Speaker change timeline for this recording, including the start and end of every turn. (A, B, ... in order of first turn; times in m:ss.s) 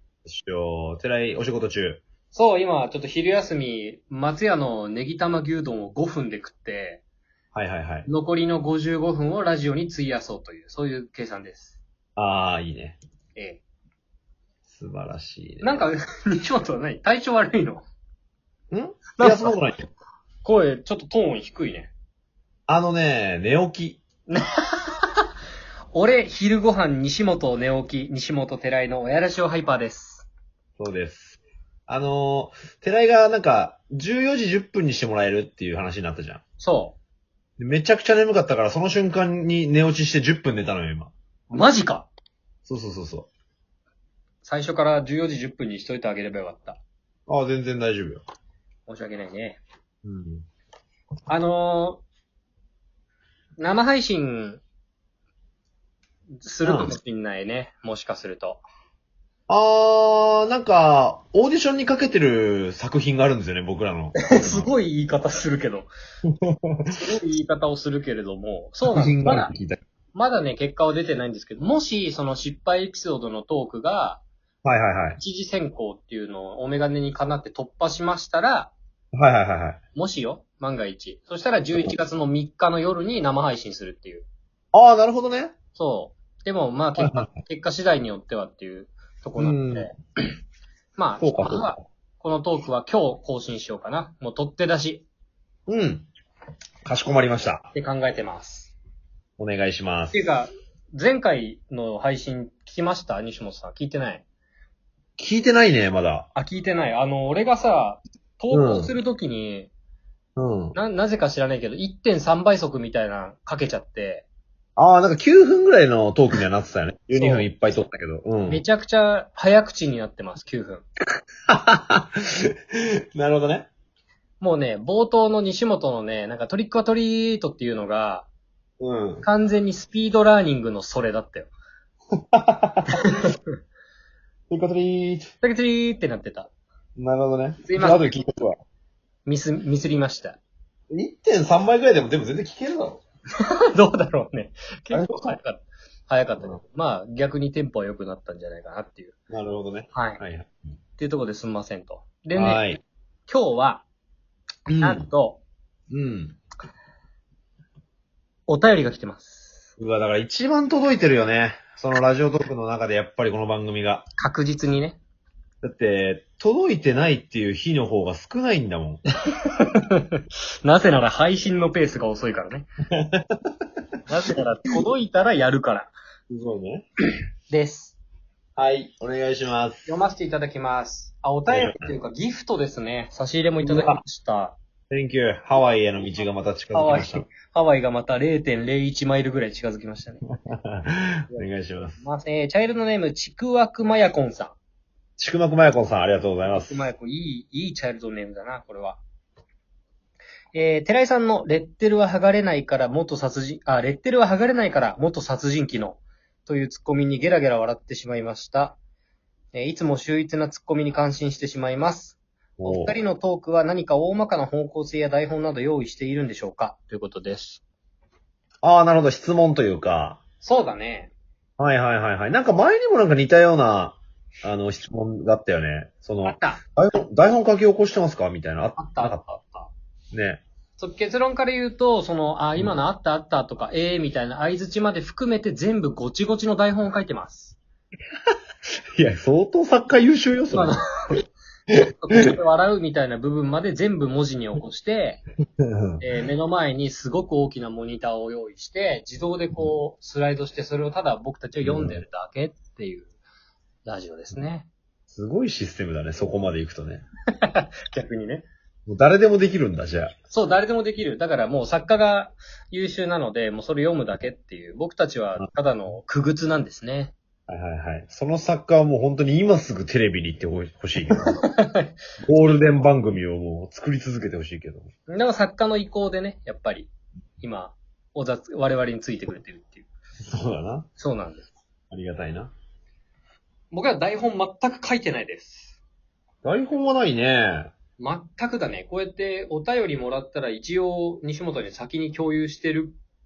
0:00.2-0:02.0 A
0:02.3-0:07.0 B
0:07.5-0:08.1 A
0:08.1-0:11.8 B
0:12.2-0:13.0 A
0:13.4-0:13.6 B
0:14.6-0:15.8 A
0:15.6-0:17.8 B
0:18.7-0:19.9 A
0:19.2-0:19.6 B
0:20.4-0:21.9 B
0:22.7-0:24.0 A
0:24.3-0:25.3 B
0:25.9-0:30.3 B
0:30.8-0:36.4 A
0:36.6-0:37.0 B
0:37.6-0:41.1 A
0:41.5-0:42.1 B
0:42.7-0:43.3 A
0:44.4-0:46.8 B
0:47.3-0:48.2 A
0:48.9-0:49.6 B
0:50.0-0:50.5 A
0:51.3-0:52.0 B
0:53.6-0:54.6 B
0:56.4-0:58.6 B
0:56.6-0:56.9 A
0:59.5-1:04.7 A
1:04.2-1:05.9 B
1:06.3-1:06.9 A
1:06.9-1:09.5 B
1:08.9-1:09.8 A
1:10.1-1:14.2 B
1:14.6-1:15.2 A
1:15.2-1:18.7 B
1:19.1-1:19.8 A
1:19.9-1:24.2 B
1:24.7-1:25.6 A
1:25.8-1:29.9 B
1:26.9-1:27.3 A
1:29.4-1:29.9 A
1:31.0-1:35.0 B
1:31.2-1:31.7 A
1:35.7-1:36.1 A
1:36.8-1:37.7 A
1:37.7-1:38.7 B
1:39.4-1:40.2 A
1:40.1-1:44.2 B
1:45.2-1:46.3 A
1:46.3-1:49.7 B
1:48.5-1:48.9 A
1:50.4-1:50.8 A
1:50.7-1:54.2 B
1:54.8-1:58.6 A
1:57.1-1:57.5 B
1:58.5-2:00.8 B
2:01.5-2:03.7 A
2:04.4-2:08.3 B
2:08.8-2:09.2 A
2:09.2-2:11.5 B
2:12.3-2:13.1 A
2:14.5-2:15.3 A
2:15.4-2:16.5 B
2:17.0-2:18.6 A
2:17.6-2:18.2 B
2:19.2-2:20.4 B
2:20.9-2:23.0 A
2:23.4-2:29.1 B
2:24.9-2:25.4 A
2:29.3-2:30.5 A
2:29.9-2:30.2 B
2:31.0-2:32.6 B
2:32.3-2:32.8 A
2:33.3-2:33.8 B
2:34.7-2:35.1 A
2:34.8-2:35.4 B
2:35.9-2:36.4 A
2:38.5-2:39.5 B
2:39.8-2:44.1 A
2:44.2-2:45.0 B
2:45.6-2:49.0 A
2:49.3-2:52.7 B
2:52.9-2:53.4 A
2:54.1-2:55.9 B
2:56.3-2:56.8 A
2:57.5-2:58.0 B
2:58.6-2:59.9 A
2:59.9-3:04.6 B
3:01.5-3:01.9 A
3:03.6-3:04.0 A
3:04.9-3:07.2 A
3:06.7-3:10.2 B
3:10.5-3:12.0 A
3:11.3-3:14.6 B
3:15.2-3:16.9 A
3:16.5-3:19.0 B
3:20.5-3:28.8 B
3:29.5-3:37.6 B
3:32.6-3:33.0 A
3:38.6-3:40.2 A
3:40.4-3:41.1 B
3:41.6-3:49.2 A
3:46.2-3:46.6 B
3:48.8-3:49.7 B
3:50.1-3:50.4 A
3:50.8-3:57.6 B
3:59.0-4:00.8 A
4:00.5-4:01.2 B
4:01.7-4:02.3 A
4:02.0-4:05.2 B
4:05.6-4:06.0 A
4:06.0-4:13.1 B
4:11.6-4:12.0 A
4:13.8-4:14.7 B
4:15.1-4:17.0 A
4:17.4-4:18.4 B
4:18.9-4:20.1 A
4:20.3-4:27.1 B
4:27.5-4:31.4 A
4:31.1-4:31.9 B
4:32.2-4:34.9 A
4:35.1-4:36.9 B
4:37.4-4:39.9 B
4:40.3-4:40.9 A
4:41.0-4:41.5 B
4:41.9-4:42.5 A
4:43.7-4:45.8 B
4:46.4-4:47.7 A
4:48.0-4:53.0 B